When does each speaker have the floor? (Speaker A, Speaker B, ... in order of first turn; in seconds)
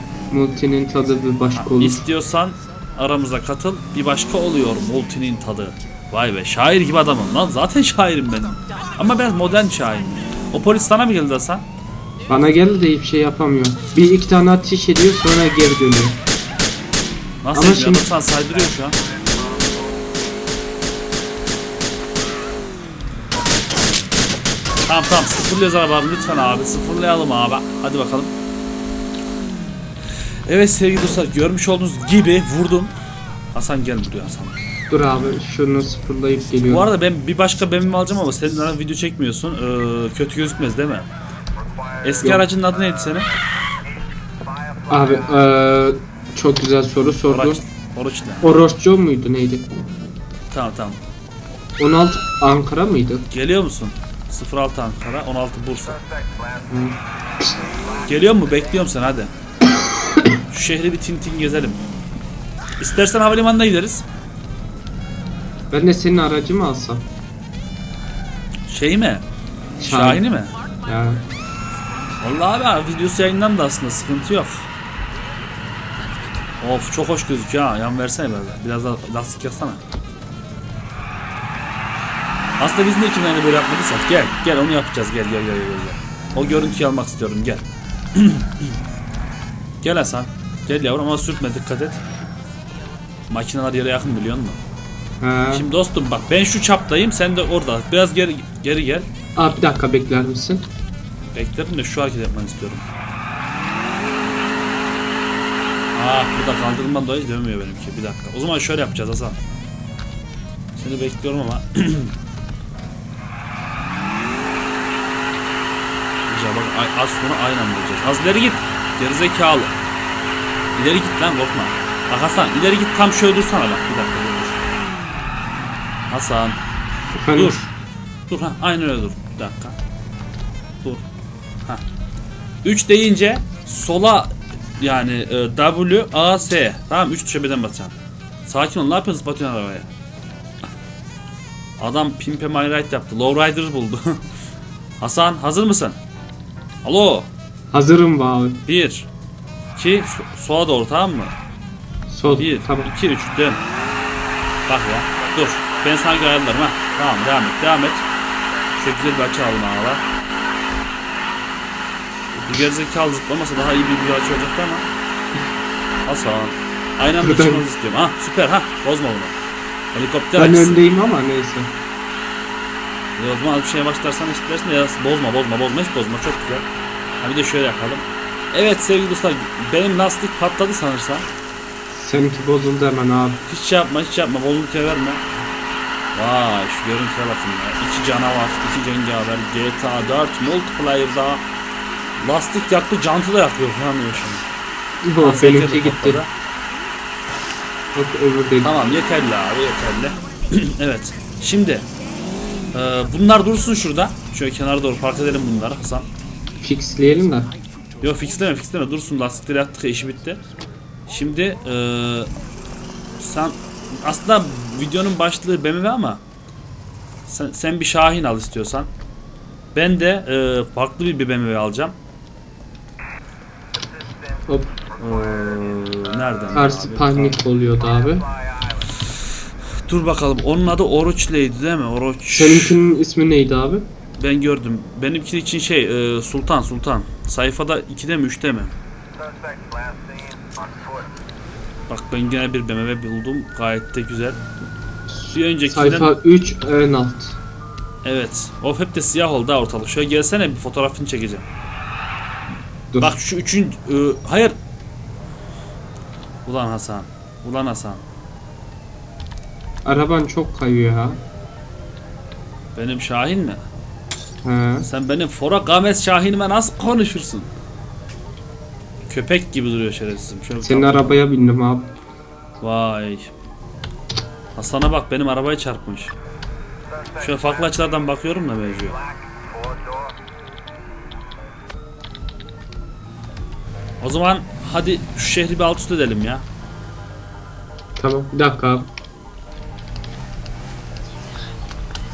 Speaker A: 0.3-2.0, 12.3-16.2, 17.5-18.1, 34.9-36.9, 44.9-47.6, 48.4-49.7, 51.8-53.2, 56.7-57.0, 65.7-67.0, 69.8-70.2, 70.8-71.2, 95.2-95.7, 99.3-100.7, 127.1-127.6, 147.7-148.6, 152.1-152.9, 167.2-167.6, 170.3-171.7, 181.9-183.4, 195.0-196.2, 197.9-199.0, 206.6-207.5, 224.5-224.7, 226.5-228.2, 232.3-233.8, 245.1-247.4, 259.8-261.2, 264.4-264.9, 270.6-271.9, 288.0-288.9
Speaker B: 1.6-11.6, 17.4-19.0, 24.9-28.3, 30.4-32.9, 33.5-34.5, 36.7-41.1, 42.0-43.3, 47.3-48.5, 50.5-51.0, 53.3-56.0, 58.0-59.3, 60.5-61.8, 62.8-64.0, 68.7-69.2, 69.8-70.5, 72.2-74.7, 76.6-79.8, 82.6-88.7, 89.8-92.0, 93.3-94.6, 95.5-99.1, 101.3-102.8, 105.9-109.4, 110.8-112.1, 116.3-119.7, 120.8-124.6, 126.1-126.6, 127.3-127.7, 128.3-129.8, 132.6-137.9, 138.4-139.9, 141.8-144.2, 145.0-146.0, 146.8-147.3, 148.7-149.1, 149.8-151.3, 152.2-153.6, 154.7-158.0, 158.8-160.0, 162.3-164.9, 166.1-169.3, 169.9-170.8, 173.2-176.7, 177.2-181.3, 183.4-185.2, 186.1-191.4, 192.2-194.4, 195.2-196.3, 198.6-201.9, 202.7-206.1, 208.0-210.4, 211.1-212.3, 213.2-216.2, 217.3-218.9, 219.7-221.9, 225.0-227.4, 229.8-232.8, 234.2-238.7, 241.9-244.4, 245.3-246.2, 248.0-251.4, 253.0-254.6, 256.4-258.0, 262.7-263.6, 264.8-267.5, 269.1-271.2, 272.6-273.3, 274.6-276.1, 277.2-279.0, 284.0-286.4